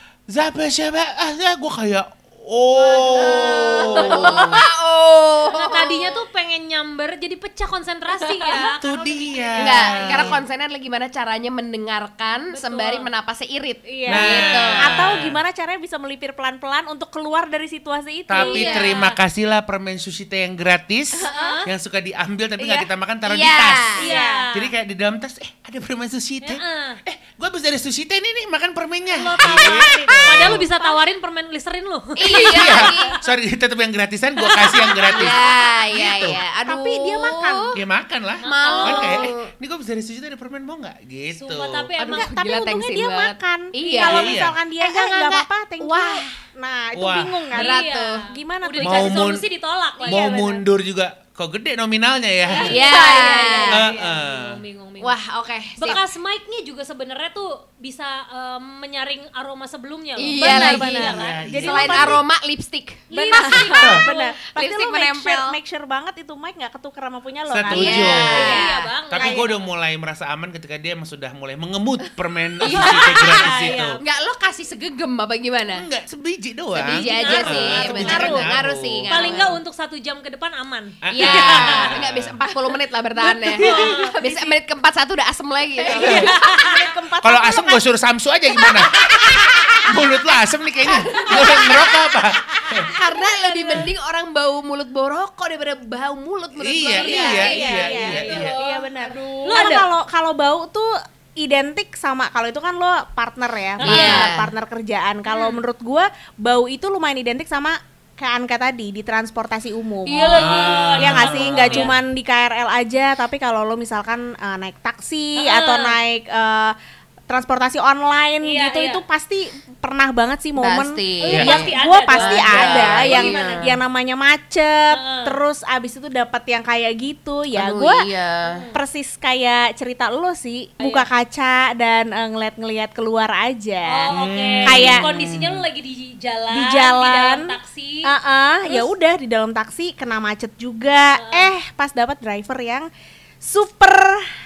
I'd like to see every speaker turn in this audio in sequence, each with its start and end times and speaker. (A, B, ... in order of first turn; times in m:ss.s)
0:00.3-0:04.6 A
0:02.8-0:04.5 B
0:03.2-0:06.1 C
0:04.1-0:04.5 D
0:05.5-0:10.2 B
0:08.2-0:08.7 D
0:08.8-0:10.4 A
0:09.6-0:15.0 C
0:12.5-0:13.1 B
0:13.9-0:18.9 D
0:14.1-0:15.4 A
0:18.3-0:23.9 A
0:18.4-0:19.2 B
0:18.4-0:19.0 C
0:21.4-0:21.7 B
0:22.6-0:22.9 D
0:23.2-0:24.0 C
0:24.0-0:24.4 D
0:24.0-0:24.7 B
0:24.5-0:30.6 A
0:26.4-0:27.0 B
0:29.1-0:33.0 B
0:29.6-0:30.4 C
0:32.2-0:33.2 C
0:32.4-0:35.4 A
0:34.4-0:35.2 B
0:35.1-0:37.8 C
0:35.9-0:36.4 A
0:36.7-0:37.8 D
0:37.7-0:41.9 A
0:38.4-0:39.3 B
0:38.4-0:39.5 C
0:41.3-0:42.3 B
0:42.0-0:46.3 C
0:42.1-0:47.8 D
0:44.0-0:44.6 A
0:46.9-0:47.4 A
0:47.5-0:50.2 B
0:47.5-0:48.2 C
0:48.3-0:49.3 D
0:48.8-0:49.4 A
0:50.0-0:50.6 D
0:50.0-0:52.8 A
0:52.5-0:55.1 B
0:52.6-0:53.8 C
0:52.6-0:53.6 D
0:53.7-0:54.6 A
0:55.0-0:56.0 C
0:55.8-1:02.1 B
1:00.2-1:05.6 C
1:00.4-1:02.2 D
1:00.5-1:02.1 A
1:03.1-1:04.3 B
1:03.3-1:08.6 D
1:07.5-1:14.0 A
1:07.7-1:08.9 C
1:07.8-1:09.5 B
1:09.1-1:09.5 D
1:12.6-1:15.8 C
1:12.7-1:14.0 B
1:15.7-1:19.3 A
1:16.7-1:19.6 C
1:16.9-1:18.0 B
1:17.4-1:18.5 D
1:19.1-1:21.9 B
1:21.0-1:22.3 A
1:21.1-1:26.7 C
1:23.3-1:24.5 D
1:23.6-1:24.2 B
1:23.6-1:24.0 A
1:25.9-1:27.8 D
1:26.0-1:26.3 A
1:26.0-1:26.8 B
1:27.2-1:32.9 A
1:30.9-1:32.0 B
1:31.0-1:31.8 C
1:31.3-1:31.7 D
1:32.6-1:33.9 B
1:32.9-1:39.7 C
1:36.6-1:38.6 A
1:37.0-1:39.9 B
1:37.0-1:56.7 D
1:43.8-1:44.3 B
1:43.8-1:44.5 C
1:45.3-1:45.6 B
1:50.0-1:51.9 B
1:50.3-1:51.9 A
1:55.4-1:55.9 B
1:57.3-2:08.1 D
1:58.4-1:59.0 B
2:00.6-2:03.7 C
2:01.2-2:03.8 B
2:04.9-2:05.4 B
2:07.5-2:08.6 C
2:08.5-2:08.8 B
2:08.7-2:14.1 D
2:10.8-2:11.1 B
2:13.8-2:18.1 B
2:14.1-2:15.6 A
2:14.6-2:15.0 D
2:16.5-2:17.5 D
2:18.0-2:22.9 D
2:18.6-2:18.9 B
2:21.2-2:21.5 B
2:23.4-2:24.3 D